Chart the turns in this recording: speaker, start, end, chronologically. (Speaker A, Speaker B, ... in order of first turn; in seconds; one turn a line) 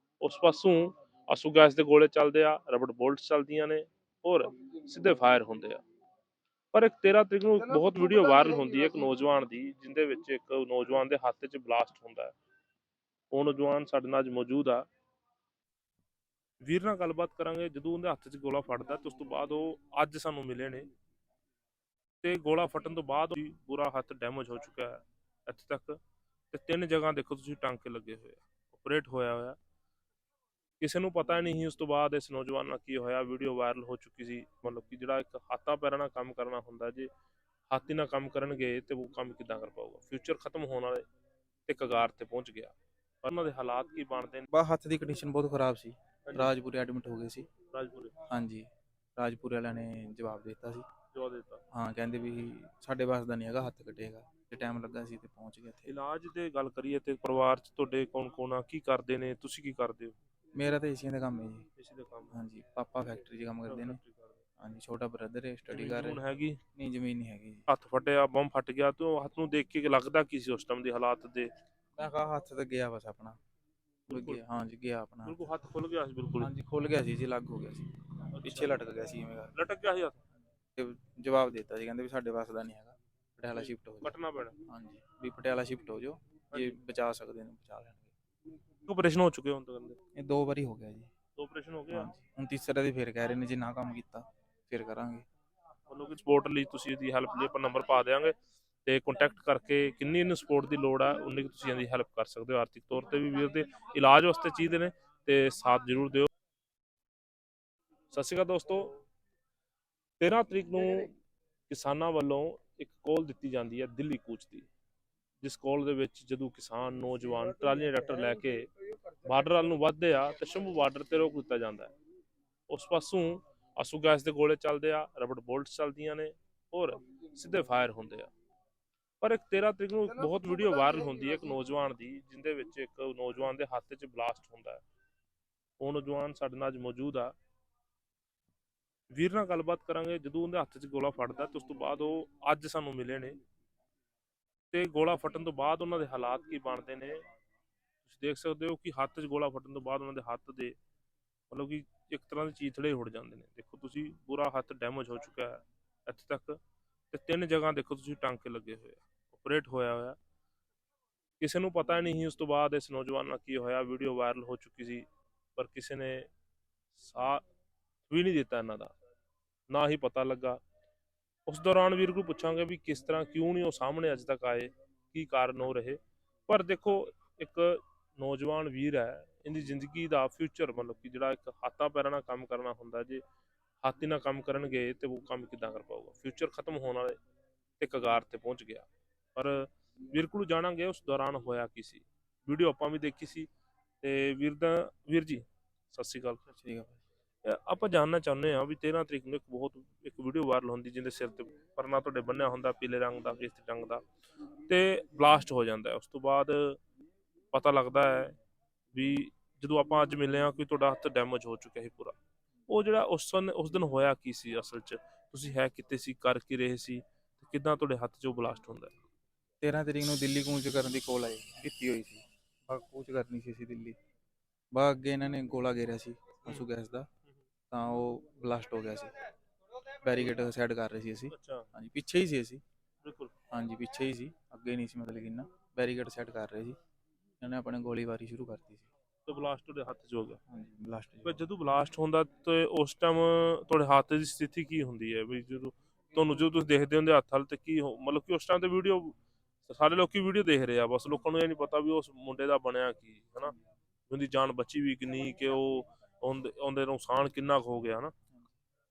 Speaker A: 0.2-5.8
Speaker A: 6.7-12.3
Speaker A: 13.3-14.9
Speaker A: 16.6-20.9
Speaker A: 22.2-26.0
Speaker A: 26.5-29.6
Speaker A: 30.8-37.1
Speaker A: 37.7-41.0
Speaker A: 41.6-44.5
Speaker B: 44.5-47.5
Speaker A: 46.2-46.5
Speaker A: 47.7-48.1
Speaker B: 48.3-50.9
Speaker A: 51.1-51.6
Speaker B: 51.7-55.9
Speaker A: 55.9-60.1
Speaker B: 60.5-61.6
Speaker A: 61.8-62.4
Speaker B: 62.3-64.0
Speaker A: 63.7-64.4
Speaker B: 64.6-66.2
Speaker A: 65.7-66.6
Speaker B: 66.7-67.7
Speaker A: 67.7-71.5
Speaker B: 72.0-73.4
Speaker B: 74.1-75.4
Speaker A: 74.1-74.4
Speaker A: 75.2-76.5
Speaker B: 76.4-79.5
Speaker A: 78.4-78.8
Speaker A: 79.5-80.2
Speaker B: 80.8-88.1
Speaker A: 83.5-84.5
Speaker A: 86.5-86.8
Speaker A: 88.8-90.0
Speaker B: 90.1-91.1
Speaker A: 91.3-92.1
Speaker B: 91.9-95.2
Speaker A: 95.9-106.3
Speaker A: 108.1-109.0
Speaker A: 110.2-111.1
Speaker A: 111.7-114.7
Speaker A: 115.4-118.7
Speaker A: 119.2-121.9
Speaker A: 122.7-128.3
Speaker A: 129.2-134.8
Speaker A: 135.8-137.3
Speaker A: 139.1-143.4
Speaker A: 144.7-147.2
Speaker A: 148.0-150.7
Speaker A: 151.5-156.6
Speaker A: 157.1-160.2
Speaker A: 161.4-165.0
Speaker A: 165.6-166.3
Speaker A: 166.9-167.4
Speaker A: 168.1-168.9
Speaker A: 169.7-170.6
Speaker A: 171.5-183.2
Speaker A: 183.8-187.2
Speaker A: 187.8-193.5
Speaker A: 194.0-196.4
Speaker B: 196.5-197.0
Speaker A: 197.4-204.0
Speaker A: 204.7-206.8
Speaker A: 207.5-208.3
Speaker A: 208.9-212.2
Speaker A: 212.7-218.9
Speaker B: 219.6-224.0
Speaker B: 224.7-227.1
Speaker B: 227.7-229.2
Speaker B: 230.0-232.6
Speaker A: 231.3-231.7
Speaker A: 233.0-233.3
Speaker B: 233.5-236.8
Speaker B: 237.4-238.9
Speaker A: 239.2-240.4
Speaker B: 240.5-241.5
Speaker A: 241.2-253.5
Speaker A: 254.1-258.1